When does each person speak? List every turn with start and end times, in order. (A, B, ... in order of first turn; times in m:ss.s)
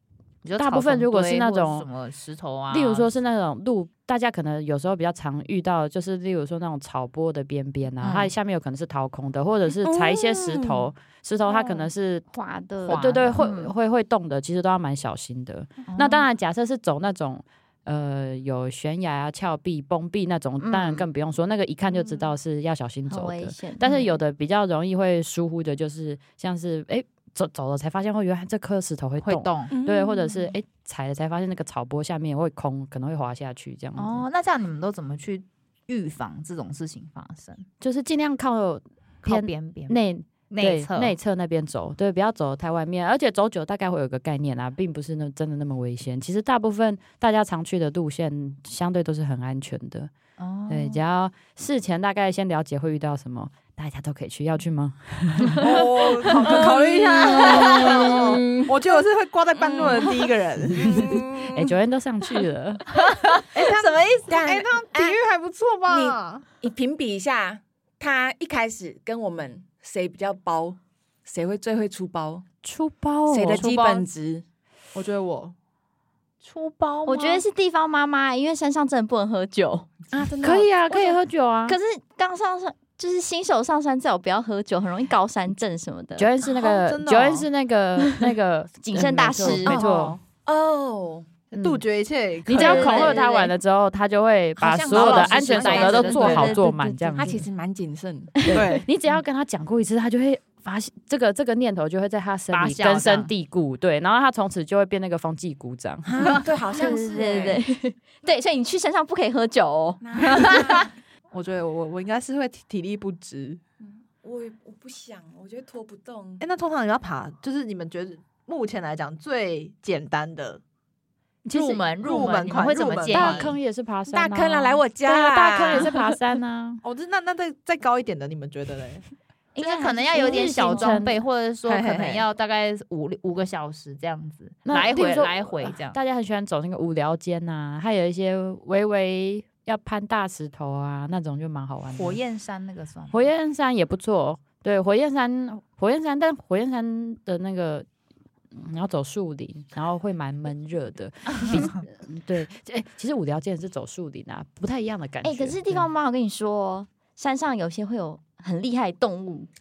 0:00.4-0:03.1 A
0:00.6-0:01.9 B
0:02.7-0:12.2 B
0:08.0-0:08.3 A
0:09.8-0:10.8 C
0:12.3-0:13.7 D
0:12.8-0:13.4 A
0:12.8-0:34.2 B
0:15.9-0:16.2 A
0:20.6-0:21.0 D
0:23.1-0:24.1 D
0:29.2-0:29.7 A
0:29.7-0:30.1 E
0:29.8-0:30.2 C
0:34.0-0:37.7 A
0:37.8-0:50.1 B
0:39.2-0:40.0 A
0:40.5-0:41.1 A
0:50.4-0:51.0 A
0:50.7-0:55.9 B
0:55.6-1:01.6 E
0:56.2-0:58.7 C
0:57.4-0:58.0 D
0:59.6-1:00.1 C
1:00.8-1:01.2 C
1:00.8-1:02.8 B
1:03.5-1:06.5 E
1:03.8-1:04.2 A
1:04.3-1:05.2 C
1:05.9-1:12.4 C
1:12.6-1:13.6 B
1:13.3-1:14.4 C
1:13.6-1:14.0 A
1:14.9-1:15.5 E
1:16.4-1:17.4 A
1:17.0-1:19.9 D
1:20.1-1:21.2 C
1:20.4-1:21.8 B
1:21.7-1:26.3 D
1:26.2-1:30.2 B
1:26.4-1:27.5 E
1:28.8-1:29.8 D
1:29.6-1:30.1 E
1:29.6-1:31.4 C
1:31.5-1:33.2 E
1:31.5-1:31.8 B
1:32.4-1:37.4 B
1:32.5-1:33.5 D
1:34.6-1:36.6 C
1:34.9-1:36.6 A
1:35.4-1:37.4 D
1:37.1-1:38.5 C
1:38.4-1:38.8 D
1:38.5-1:46.4 B
1:38.5-1:38.9 E
1:42.5-1:43.3 A
1:46.1-1:47.6 C
1:46.7-1:50.7 D
1:50.0-1:50.9 C
1:50.4-1:53.6 E
1:53.8-1:56.4 C
1:56.4-2:00.6 E
2:01.4-2:01.8 B
2:01.5-2:03.5 A
2:01.8-2:03.6 E
2:03.1-2:06.8 B
2:04.1-2:06.0 C
2:06.8-2:09.0 E
2:09.5-2:11.0 D
2:09.6-2:16.0 A
2:10.1-2:11.2 B
2:11.6-2:12.2 E
2:14.6-2:22.2 B
2:21.9-2:23.3 A
2:23.1-2:27.8 B
2:28.5-2:35.9 B
2:31.4-2:31.7 A
2:35.2-2:39.5 D